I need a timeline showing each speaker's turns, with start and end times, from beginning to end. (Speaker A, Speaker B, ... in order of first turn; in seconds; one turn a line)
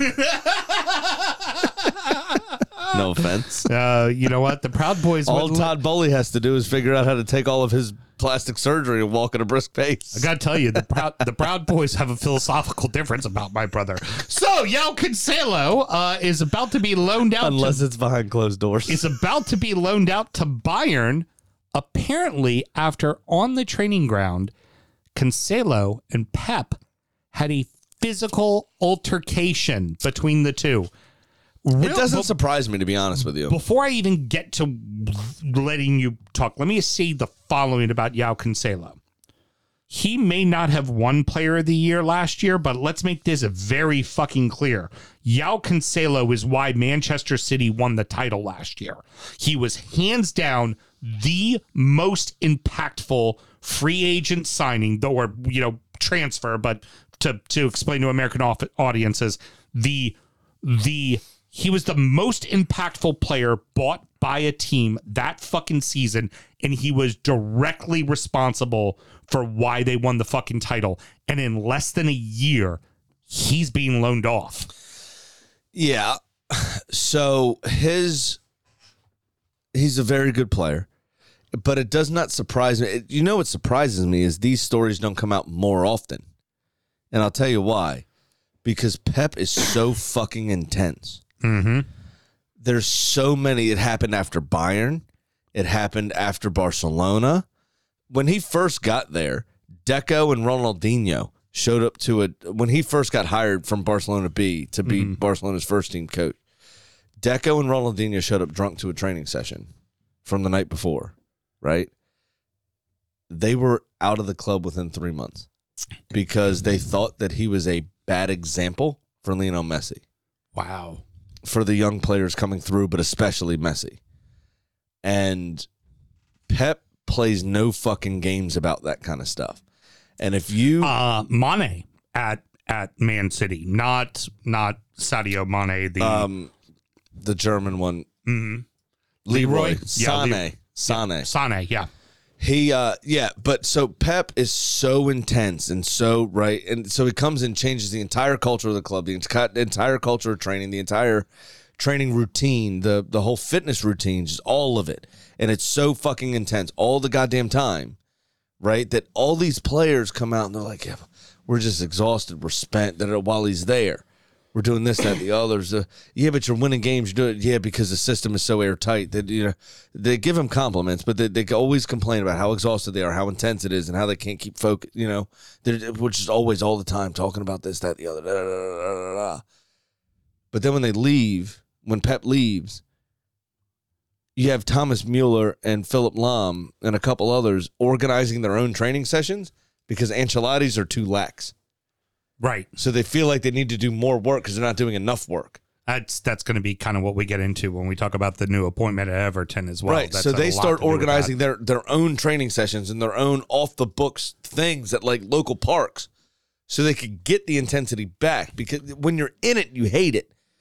Speaker A: 0.2-3.0
Speaker B: 2.9-3.7
Speaker A: 3.6-5.8
Speaker B: 5.2-10.8
Speaker A: 10.1-17.8
Speaker B: 17.4-19.1
Speaker A: 18.9-24.5
Speaker A: 25.1-26.8
Speaker A: 27.3-30.9
Speaker A: 31.6-32.3
Speaker B: 31.8-33.6
Speaker A: 33.2-39.0
Speaker A: 39.9-74.7
Speaker B: 75.7-78.4
Speaker B: 79.7-80.9
Speaker B: 81.5-86.2
Speaker B: 87.1-88.0
Speaker B: 88.6-91.2
Speaker A: 91.4-91.8
Speaker B: 92.6-97.5
Speaker B: 98.1-106.4
Speaker A: 104.8-105.2
Speaker B: 107.2-109.7
Speaker B: 110.2-111.9
Speaker B: 113.3-115.5
Speaker B: 116.1-120.0
Speaker A: 120.5-121.0
Speaker B: 121.4-124.0
Speaker B: 125.0-125.7
Speaker B: 126.5-129.6
Speaker B: 130.2-130.9
Speaker A: 130.8-136.3
Speaker B: 136.0-136.5
Speaker B: 137.2-138.1
Speaker A: 138.2-138.6
Speaker B: 139.2-141.3
Speaker A: 139.3-141.9
Speaker B: 142.4-158.0
Speaker B: 158.6-179.4
Speaker B: 180.5-182.8
Speaker B: 184.3-191.5
Speaker A: 192.4-192.7
Speaker B: 192.8-195.6
Speaker A: 195.9-201.3
Speaker B: 199.8-206.1
Speaker B: 206.7-210.3